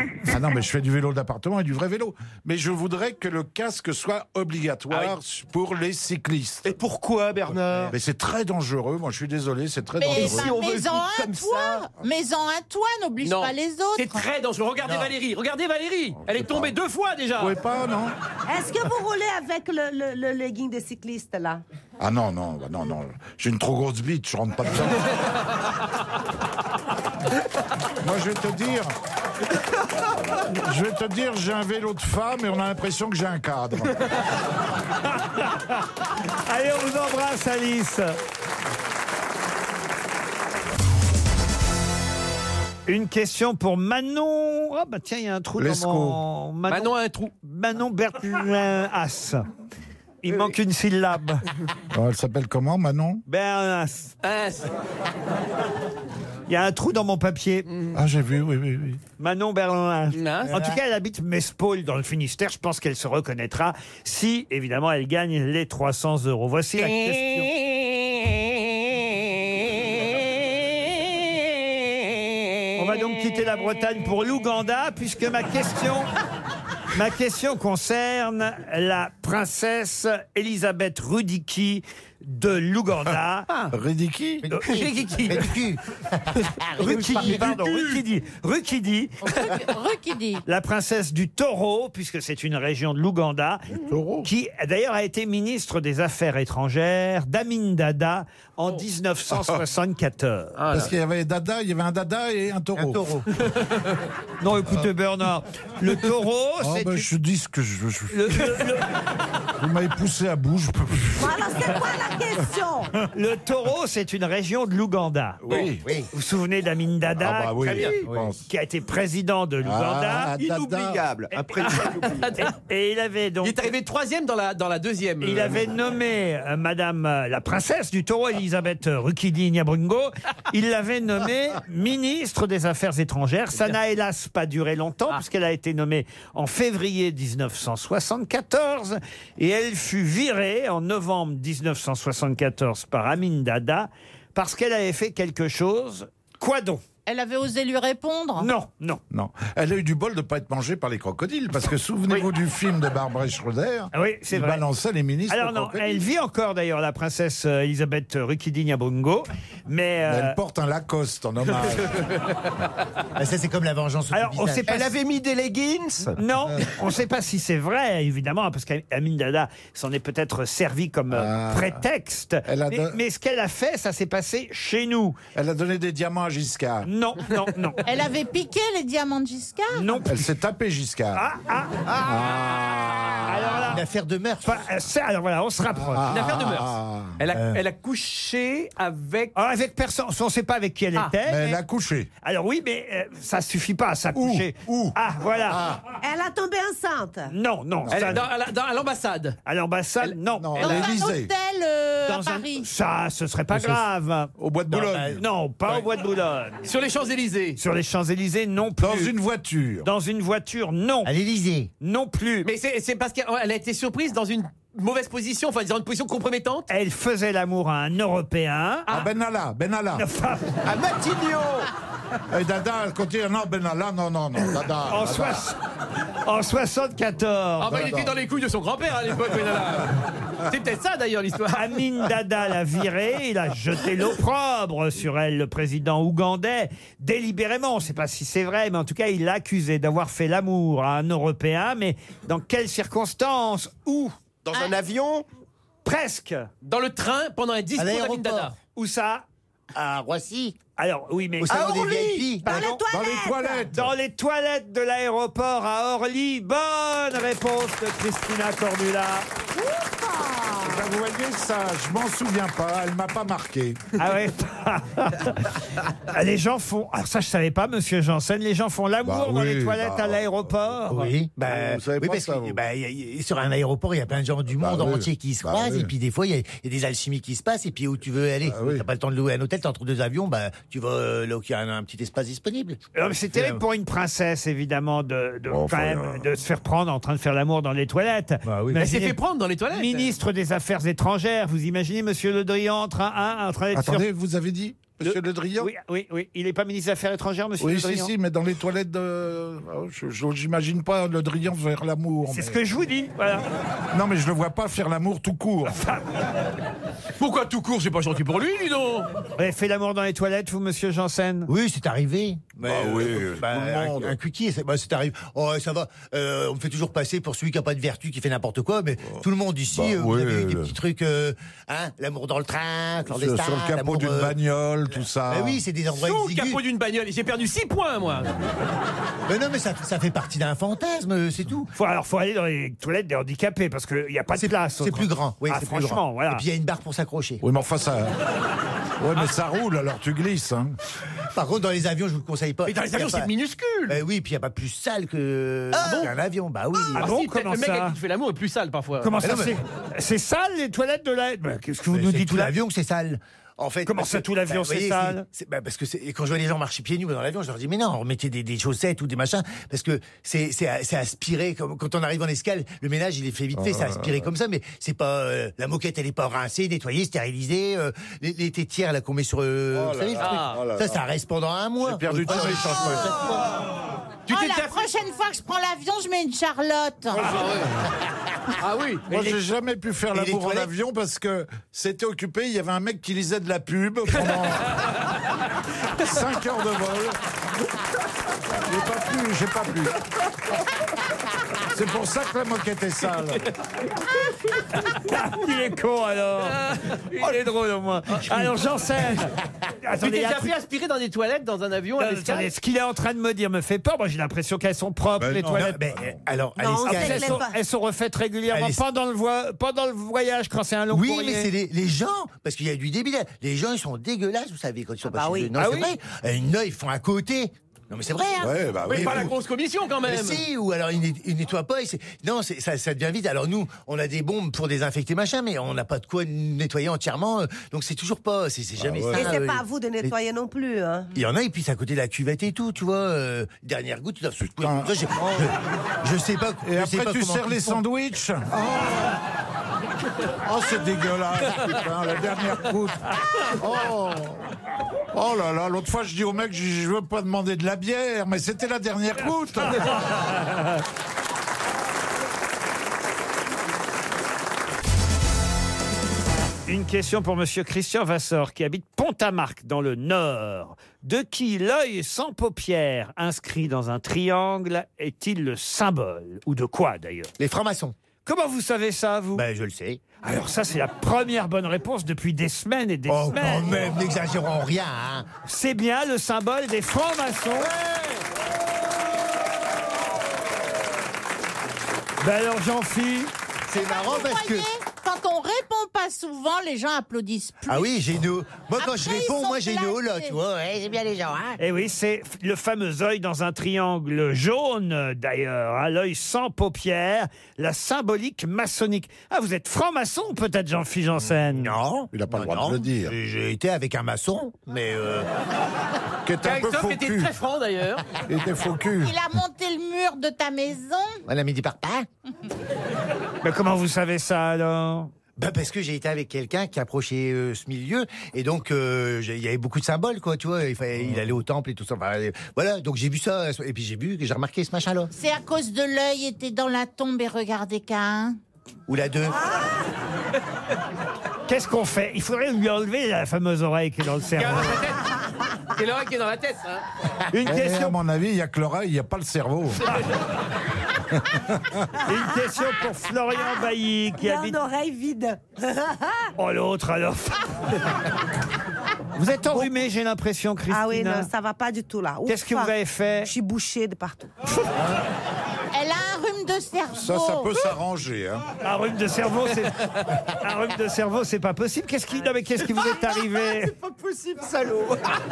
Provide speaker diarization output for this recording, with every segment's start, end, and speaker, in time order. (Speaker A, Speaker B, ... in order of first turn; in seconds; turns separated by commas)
Speaker A: 0.2-6.7, Speaker B: 6.6-8.0, Speaker A: 7.9-10.6, Speaker C: 10.0-14.2, Speaker B: 10.1-11.8, Speaker D: 13.2-17.5, Speaker E: 14.8-15.1, Speaker A: 16.2-16.7, Speaker A: 17.4-18.1, Speaker F: 18.5-21.6, Speaker A: 22.0-25.1, Speaker A: 28.0-28.9, Speaker A: 30.3-34.0, Speaker G: 35.1-35.9, Speaker G: 36.4-38.1, Speaker G: 42.9-49.4, Speaker A: 45.6-46.2, Speaker D: 46.7-47.3, Speaker G: 50.2-51.4, Speaker A: 51.9-53.2, Speaker G: 53.3-54.1, Speaker D: 54.2-54.7, Speaker G: 56.5-57.6, Speaker A: 57.9-59.0, Speaker G: 59.2-67.5, Speaker D: 60.1-60.5, Speaker E: 60.4-60.8, Speaker G: 72.8-76.1, Speaker G: 76.9-83.5, Speaker A: 83.7-84.5, Speaker E: 84.4-87.5, Speaker D: 84.6-85.6, Speaker G: 86.8-89.3, Speaker D: 86.8-88.0, Speaker C: 89.3-90.4, Speaker G: 90.5-93.6, Speaker A: 93.9-94.3, Speaker G: 94.2-100.5, Speaker D: 100.6-100.9, Speaker A: 100.7-103.0, Speaker E: 102.7-103.2, Speaker G: 104.4-107.1, Speaker A: 106.6-108.7, Speaker G: 108.1-108.9, Speaker A: 109.6-111.3, Speaker F: 111.2-112.9, Speaker G: 113.1-120.3, Speaker A: 115.4-115.8, Speaker E: 115.8-116.1, Speaker A: 117.2-118.4, Speaker D: 117.7-118.0, Speaker A: 119.6-121.0, Speaker B: 120.4-122.4, Speaker D: 121.7-122.5, Speaker G: 122.4-123.7, Speaker D: 123.4-125.6, Speaker G: 125.2-146.8, Speaker C: 147.1-148.5, Speaker G: 148.4-149.0, Speaker A: 149.1-156.0, Speaker G: 153.9-154.6, Speaker G: 155.3-160.4, Speaker A: 160.1-162.2, Speaker E: 163.2-164.9, Speaker G: 164.1-164.9, Speaker B: 164.7-166.2, Speaker G: 166.2-175.2, Speaker A: 171.1-171.8, Speaker A: 172.4-173.0, Speaker A: 175.3-176.9, Speaker G: 176.8-177.8, Speaker C: 177.8-180.1, Speaker G: 179.7-180.2, Speaker A: 180.1-181.2, Speaker G: 181.1-182.1, Speaker A: 182.0-183.0, Speaker D: 182.4-183.1, Speaker G: 183.2-183.8, Speaker E: 183.6-184.6, Speaker G: 184.4-186.1, Speaker A: 185.8-187.2, Speaker D: 186.1-189.3, Speaker E: 187.3-187.6, Speaker G: 189.3-191.6, Speaker A: 191.2-192.1, Speaker G: 192.2-195.6, Speaker A: 194.1-194.9, Speaker A: 195.5-195.8, Speaker F: 196.0-197.3, Speaker G: 197.3-198.2, Speaker A: 197.8-198.2, Speaker D: 197.9-199.4, Speaker G: 199.4-200.6, Speaker D: 200.0-200.9, Speaker A: 200.4-201.3, Speaker C: 200.6-202.7, Speaker G: 202.1-204.3, Speaker A: 203.5-203.8, Speaker A: 204.4-205.2, Speaker E: 204.7-205.2, Speaker G: 205.0-206.6, Speaker D: 206.6-207.6, Speaker G: 207.6-209.1, Speaker A: 208.8-209.9, Speaker G: 209.8-211.1, Speaker E: 211.0-211.7, Speaker G: 211.8-212.5, Speaker D: 212.4-216.7, Speaker G: 216.7-218.9, Speaker A: 218.9-220.1, Speaker G: 219.9-220.5, Speaker B: 220.6-221.7, Speaker A: 222.3-225.5, Speaker G: 224.9-225.6, Speaker G: 226.2-227.9, Speaker D: 227.6-231.7, Speaker A: 227.7-228.1, Speaker G: 231.5-244.1, Speaker B: 244.4-245.2, Speaker G: 245.8-246.5, Speaker D: 246.6-248.6, Speaker E: 247.8-248.5, Speaker G: 248.8-249.2, Speaker E: 249.7-250.6, Speaker G: 250.8-252.8, Speaker E: 251.4-252.7, Speaker F: 251.5-253.7, Speaker A: 252.9-253.9, Speaker G: 253.7-259.3, Speaker F: 259.7-260.9, Speaker A: 260.6-263.8, Speaker G: 264.0-271.1, Speaker A: 269.0-270.6, Speaker E: 270.9-282.8, Speaker A: 271.4-272.6, Speaker A: 274.6-275.9, Speaker A: 278.5-278.8, Speaker G: 282.9-289.1, Speaker E: 283.3-283.6, Speaker A: 285.5-286.4, Speaker E: 288.4-288.9, Speaker D: 288.7-290.1, Speaker G: 289.7-294.1, Speaker A: 293.7-295.7, Speaker G: 295.0-298.1, Speaker A: 297.6-302.6, Speaker G: 302.3-303.4, Speaker A: 303.9-305.8, Speaker G: 305.7-306.2, Speaker D: 307.2-309.1, Speaker G: 309.4-311.5, Speaker E: 311.5-324.4, Speaker A: 312.6-314.1, Speaker A: 319.1-320.7, Speaker A: 323.1-325.6, Speaker E: 325.2-326.6, Speaker D: 325.9-328.3, Speaker E: 329.3-331.7, Speaker G: 331.7-336.4, Speaker E: 334.3-337.4, Speaker A: 337.4-338.1, Speaker A: 339.0-340.8, Speaker E: 341.3-343.3, Speaker D: 342.6-344.0, Speaker E: 343.9-347.1, Speaker D: 345.7-346.1, Speaker D: 346.8-349.2, Speaker G: 346.9-348.0, Speaker G: 349.0-352.5, Speaker E: 349.2-349.5, Speaker E: 351.9-373.4, Speaker G: 353.9-355.2, Speaker A: 363.6-364.3, Speaker A: 369.7-371.0, Speaker D: 370.2-370.6, Speaker A: 371.8-373.2, Speaker D: 374.3-374.9, Speaker C: 374.3-377.3, Speaker A: 377.1-377.6, Speaker D: 377.2-377.7, Speaker D: 378.6-379.1, Speaker A: 379.1-384.7, Speaker E: 380.1-380.7, Speaker A: 386.0-387.2, Speaker A: 388.5-390.0, Speaker A: 391.7-393.4, Speaker G: 394.9-396.6, Speaker D: 396.5-397.0, Speaker G: 397.2-399.3, Speaker G: 399.8-400.5, Speaker D: 400.0-402.5, Speaker G: 402.0-405.8, Speaker A: 405.2-406.2, Speaker E: 405.6-407.4, Speaker F: 406.6-407.5, Speaker G: 406.8-411.5, Speaker E: 408.5-408.8, Speaker E: 410.9-419.3, Speaker F: 415.1-415.5, Speaker G: 415.6-415.9, Speaker A: 418.4-419.3, Speaker D: 418.9-420.4, Speaker E: 420.1-430.1, Speaker A: 428.8-429.3, Speaker F: 429.1-431.1, Speaker E: 431.1-437.8, Speaker A: 434.6-435.5, Speaker A: 436.6-439.2, Speaker A: 440.4-444.4, Speaker A: 445.1-449.9, Speaker G: 449.7-450.8, Speaker G: 456.7-467.3, Speaker E: 467.4-467.9, Speaker G: 468.2-469.4, Speaker E: 469.3-470.0, Speaker G: 470.2-474.0, Speaker E: 473.1-475.3, Speaker G: 475.4-477.7, Speaker E: 477.6-478.2, Speaker G: 482.2-483.3, Speaker E: 483.7-484.7, Speaker C: 483.7-488.0, Speaker E: 487.6-491.6, Speaker C: 488.8-490.4, Speaker G: 491.6-501.7, Speaker E: 501.5-505.3, Speaker A: 502.1-503.1, Speaker A: 506.2-507.3, Speaker D: 506.4-508.1, Speaker A: 508.3-509.2, Speaker C: 509.0-511.2, Speaker E: 511.3-512.1, Speaker G: 513.4-515.1, Speaker E: 515.4-525.1, Speaker C: 525.1-528.4, Speaker E: 528.9-529.4, Speaker G: 531.5-534.8, Speaker D: 534.4-535.0, Speaker D: 535.7-536.8, Speaker G: 537.3-538.0, Speaker A: 537.4-539.9, Speaker A: 541.1-541.9, Speaker G: 542.0-544.6, Speaker F: 544.2-546.3, Speaker G: 546.4-547.6, Speaker G: 549.1-551.3, Speaker F: 550.7-554.3, Speaker G: 552.2-553.3, Speaker C: 555.7-557.6, Speaker A: 556.9-558.4, Speaker G: 558.6-563.7